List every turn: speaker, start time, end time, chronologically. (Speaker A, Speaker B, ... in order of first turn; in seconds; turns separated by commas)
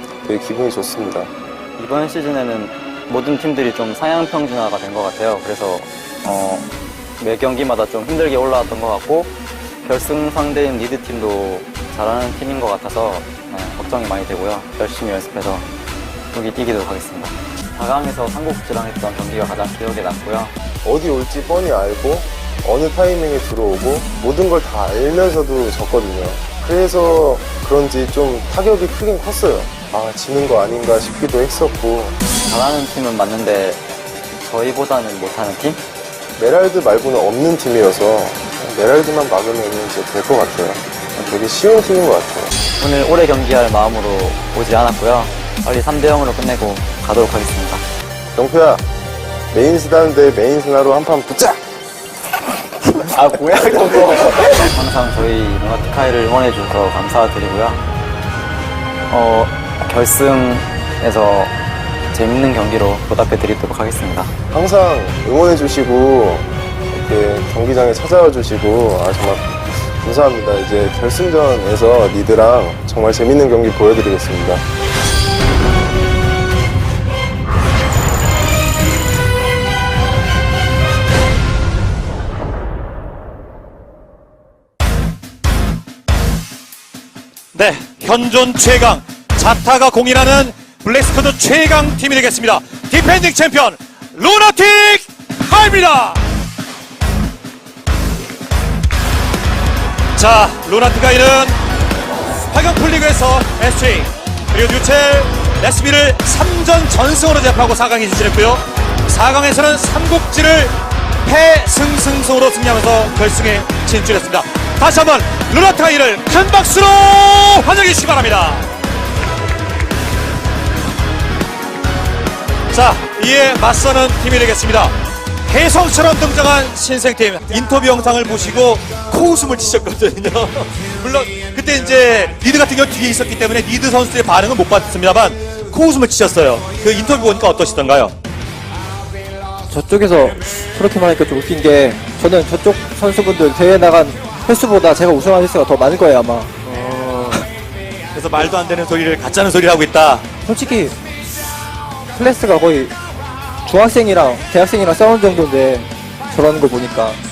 Speaker A: 0.2-1.3, Speaker B: 1.8-9.3, Speaker B: 9.8-15.7, Speaker B: 16.3-20.5, Speaker A: 20.8-32.1, Speaker B: 32.5-33.8, Speaker B: 34.4-35.8, Speaker A: 36.4-42.5, Speaker B: 42.8-47.8, Speaker A: 48.3-48.8, Speaker A: 49.5-51.6, Speaker B: 53.1-57.8, Speaker B: 59.1-61.5, Speaker B: 62.1-64.3, Speaker A: 64.5-74.6, Speaker C: 87.5-96.2, Speaker C: 100.2-101.6, Speaker C: 102.5-118.7, Speaker C: 122.7-124.9, Speaker C: 125.5-138.1, Speaker D: 139.7-147.4, Speaker C: 148.1-150.2, Speaker D: 150.4-150.9, Speaker D: 152.1-152.9, Speaker D: 153.6-157.2